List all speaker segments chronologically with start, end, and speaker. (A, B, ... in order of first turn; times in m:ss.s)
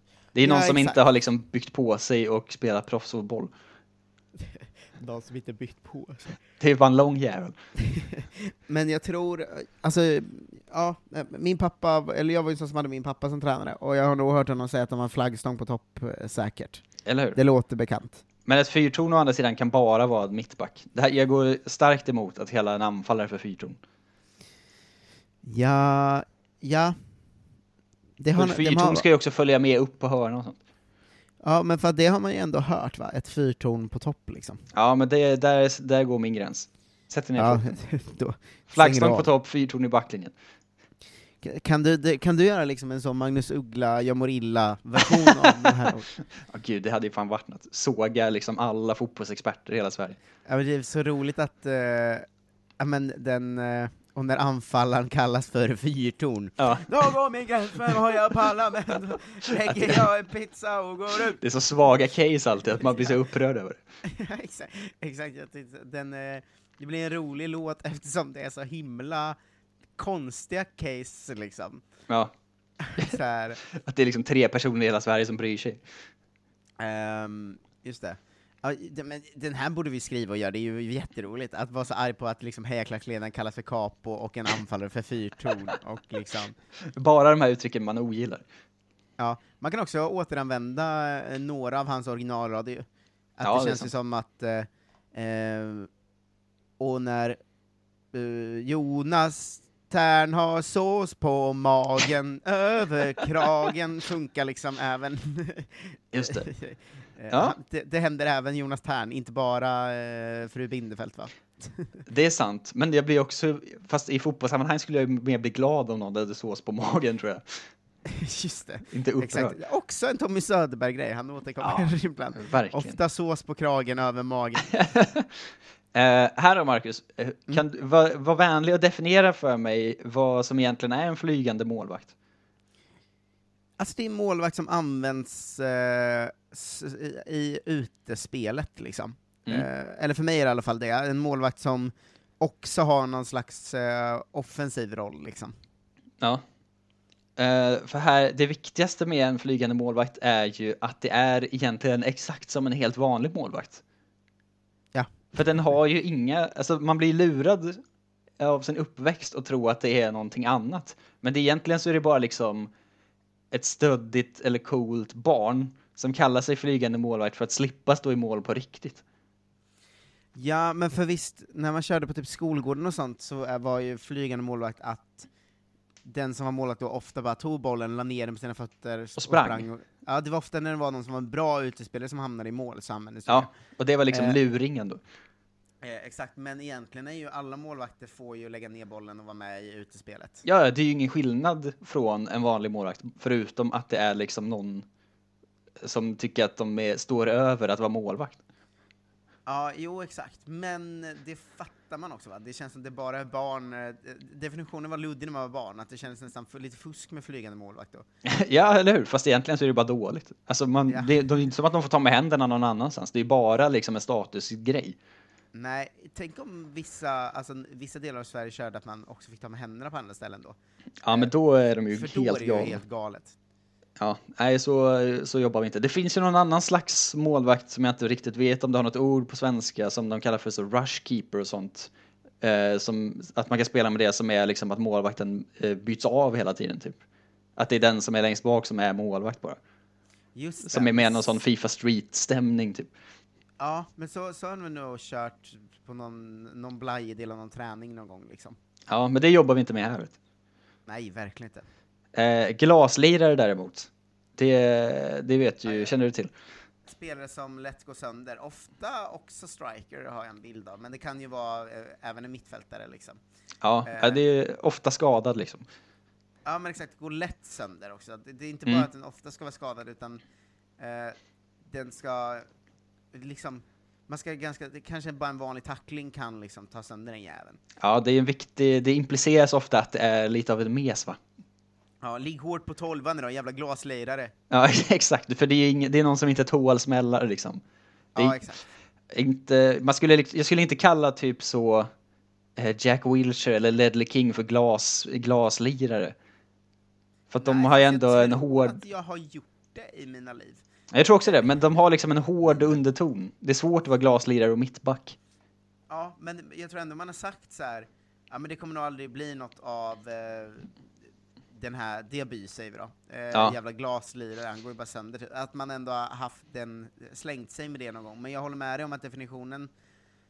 0:00.4-0:03.5 A
0:00.4-0:01.0 B
0:04.4-0:06.3 B
0:06.6-0:07.6 A
0:07.9-0:16.8 B
0:17.1-0:17.4 A
0:17.3-0:18.2 B
0:18.5-0:23.8 A
0:25.4-0:27.0 B
0:28.2-0:29.0 B
0:28.4-0:30.6 A
0:31.4-0:34.6 B
0:34.7-0:37.7 A
0:37.4-0:39.3 B
0:38.7-0:40.3 A
0:41.4-0:46.1 B
0:46.5-0:50.2 A
0:50.5-0:52.3 B
0:52.8-1:01.4 B
0:56.6-0:56.9 A
0:59.6-1:00.0 A
1:01.4-1:03.8 A
1:04.0-1:09.4 B
1:10.0-1:11.8 B
1:12.8-1:13.6 B
1:13.7-1:15.8 A
1:16.8-1:26.6 B
1:27.0-1:28.4 A
1:29.2-1:32.9 B
1:33.4-1:35.9 B
1:33.4-1:33.9 A
1:36.8-1:37.4 B
1:38.1-1:51.9 B
1:46.1-1:46.5 A
1:47.3-1:47.6 A
1:52.1-1:57.4 A
1:58.1-2:04.7 B
1:58.9-1:59.6 A
2:01.6-2:03.0 A
2:04.7-2:05.3 A
2:05.9-2:12.1 A
2:13.8-2:25.5 B
2:27.4-2:33.8 A
2:35.4-2:37.8 A
2:38.4-2:42.7 A
2:43.5-2:49.0 A
2:50.4-2:55.3 B
2:56.0-3:03.5 B
2:59.2-2:59.7 A
3:03.3-3:05.0 A
3:04.1-3:04.4 B
3:05.8-3:10.4 B
3:10.4-3:14.8 A
3:15.8-3:18.4 A
3:19.5-3:28.1 B
3:28.2-3:35.0 A
3:30.9-3:31.2 B
3:35.5-3:40.6 B
3:41.0-3:42.8 A
3:41.9-3:43.4 B
3:44.0-3:51.9 A
3:52.4-3:57.0 A
3:57.6-3:59.6 A
4:00.4-4:01.4 B
4:00.6-4:02.9 A
4:03.6-4:08.6 B
4:08.9-4:10.2 A
4:10.9-4:11.6 B
4:12.2-4:16.3 A
4:15.7-4:15.9 B
4:16.9-4:23.2 B
4:23.6-4:25.7 A
4:23.8-4:24.2 B
4:26.4-4:30.2 B
4:30.8-4:32.5 B
4:33.1-4:37.6 B
4:37.8-4:41.2 A
4:42.0-4:44.3 B
4:44.5-4:47.6 A
4:48.2-4:48.6 B
4:49.1-4:51.9 A
4:52.6-4:56.2 A
4:57.3-4:58.8 A
4:57.4-5:00.6 B
5:00.9-5:05.2 A
5:05.9-5:10.7 B
5:11.5-5:19.7 B